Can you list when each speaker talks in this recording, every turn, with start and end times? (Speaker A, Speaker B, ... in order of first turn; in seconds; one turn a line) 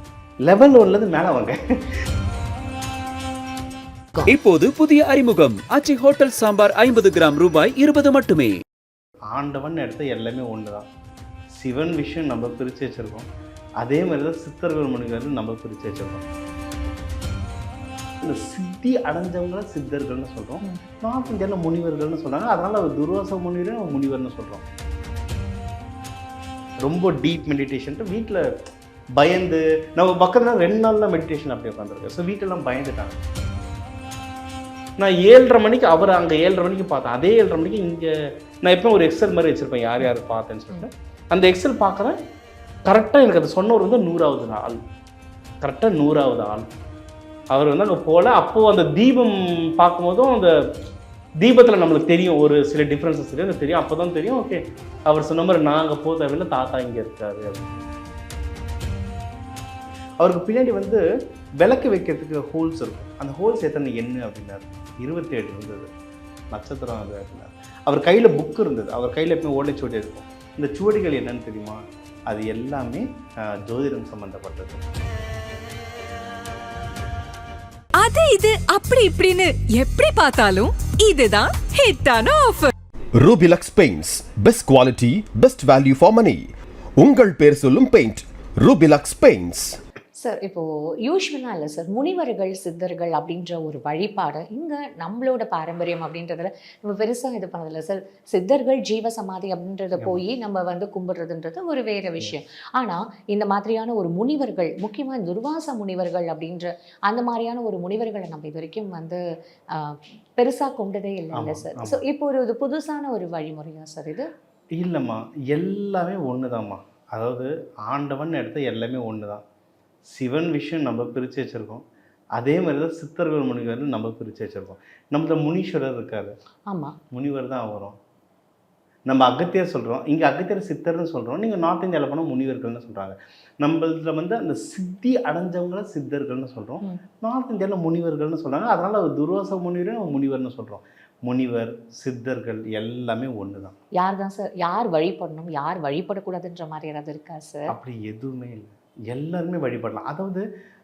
Speaker A: 0.4-1.6
Speaker B: 4.3-8.6
Speaker A: 9.3-10.9
Speaker A: 11.5-13.3
Speaker A: 13.8-16.2
Speaker A: 18.2-24.6
Speaker A: 26.8-28.5
Speaker A: 29.1-33.2
Speaker A: 35.0-38.1
Speaker A: 38.6-42.2
Speaker A: 42.9-44.8
Speaker A: 45.6-46.6
Speaker A: 47.5-50.6
Speaker A: 51.4-57.7
Speaker A: 60.2-61.0
Speaker A: 61.6-65.9
Speaker A: 66.5-74.8
Speaker C: 78.0-82.7
Speaker D: 83.2-89.8
Speaker E: 90.2-109.2
Speaker A: 100.0-100.2
Speaker E: 109.7-114.3
Speaker A: 111.3-112.0
Speaker A: 114.8-119.4
Speaker A: 120.1-121.8
Speaker A: 122.3-126.3
Speaker E: 126.7-126.9
Speaker A: 127.1-128.0
Speaker A: 129.1-143.8
Speaker E: 144.0-147.7
Speaker A: 147.7-150.4